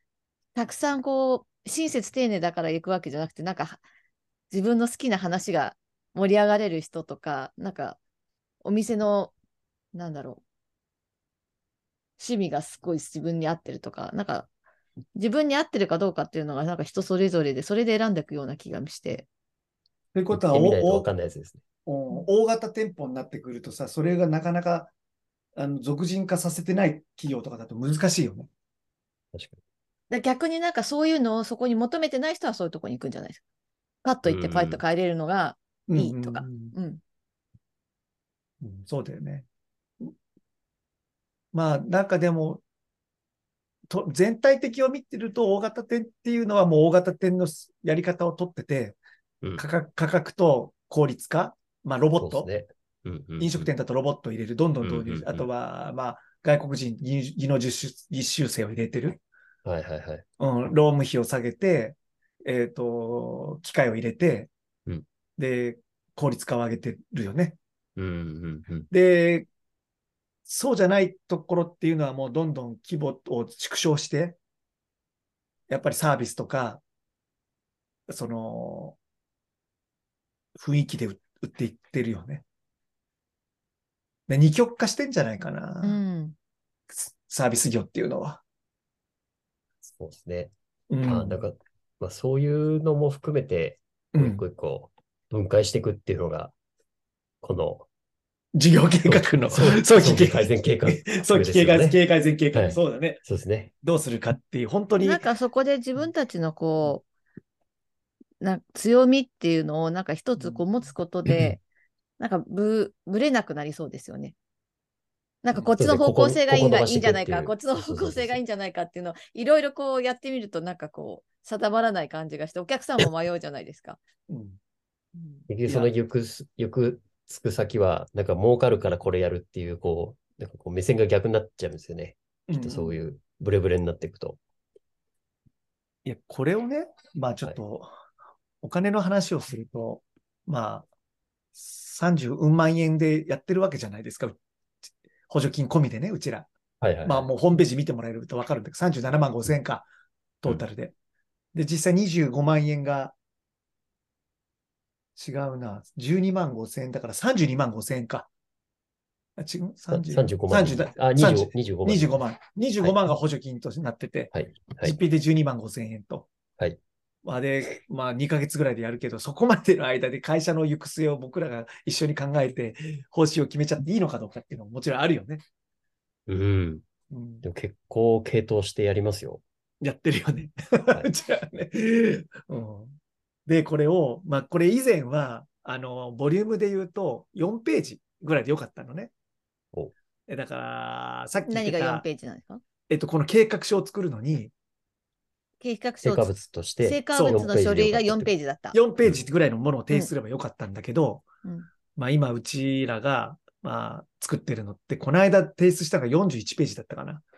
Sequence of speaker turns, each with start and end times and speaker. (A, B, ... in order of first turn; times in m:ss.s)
0:00.5-0:03.8 A
0:04.5-0:08.0 A
0:08.6-0:09.3 A
0:09.9-0:10.4 A
0:12.2-0:14.5 A
0:15.1-0:19.2 A
0:20.1-0:21.1 B
0:20.3-0:21.6 C
0:21.8-0:24.9 B
0:25.6-0:28.5 B
0:29.3-0:29.6 C
0:30.1-0:33.4 A
0:34.0-0:37.0 A
0:34.2-0:34.8 C
0:35.9-0:36.7 B
0:38.6-0:39.4 B
0:41.5-0:42.6 B
0:43.9-0:49.0 B
0:49.6-0:52.5 B
0:52.2-0:53.7 C
0:53.4-0:59.2 B
0:54.8-0:55.5 C
0:59.6-1:00.2 C
1:00.4-1:04.5 B
1:05.4-1:07.6 B
1:08.0-1:08.9 C
1:08.9-1:09.5 B
1:10.4-1:14.4 B
1:15.7-1:16.8 B
1:18.1-1:19.0 B
1:20.6-1:22.4 B
1:24.3-1:26.0 B
1:25.8-1:26.3 A
1:26.9-1:28.4 B
1:29.9-1:36.5 C
1:30.9-1:31.4 B
1:34.1-1:34.4 B
1:37.4-1:37.9 C
1:38.5-1:43.2 B
1:39.0-1:42.0 C
1:42.5-1:43.7 C
1:43.8-1:45.2 B
1:45.0-1:47.0 A
1:48.4-1:51.6 A
1:51.3-1:51.5 C
1:52.2-1:54.3 A
1:55.4-2:04.0 A
1:55.7-1:58.4 C
2:04.3-2:04.6 B
2:05.1-2:05.4 A
2:05.5-2:14.4 C
2:05.6-2:05.9 B
2:12.5-2:12.9 B
2:16.0-2:17.9 B
2:18.6-2:20.9 B
2:21.5-2:24.4 B
2:25.3-2:26.5 B
2:26.8-2:27.3 C
2:27.0-2:29.8 B
2:30.4-2:30.9 B
2:31.5-2:33.1 B
2:35.2-2:38.3 B
2:39.4-2:46.3 B
2:39.9-2:42.2 C
2:42.8-2:43.1 C
2:44.3-2:45.0 C
2:47.2-2:55.4 B
2:56.3-2:56.8 C
2:57.1-2:57.4 B
2:57.4-2:59.4 C
2:59.8-3:03.0 B
3:03.5-3:09.1 B
3:10.3-3:12.0 B
3:11.4-3:12.6 A
3:12.9-3:14.5 B
3:15.6-3:18.8 A
3:16.0-3:18.3 C
3:17.1-3:17.4 B
3:18.7-3:21.3 B
3:22.0-3:27.2 B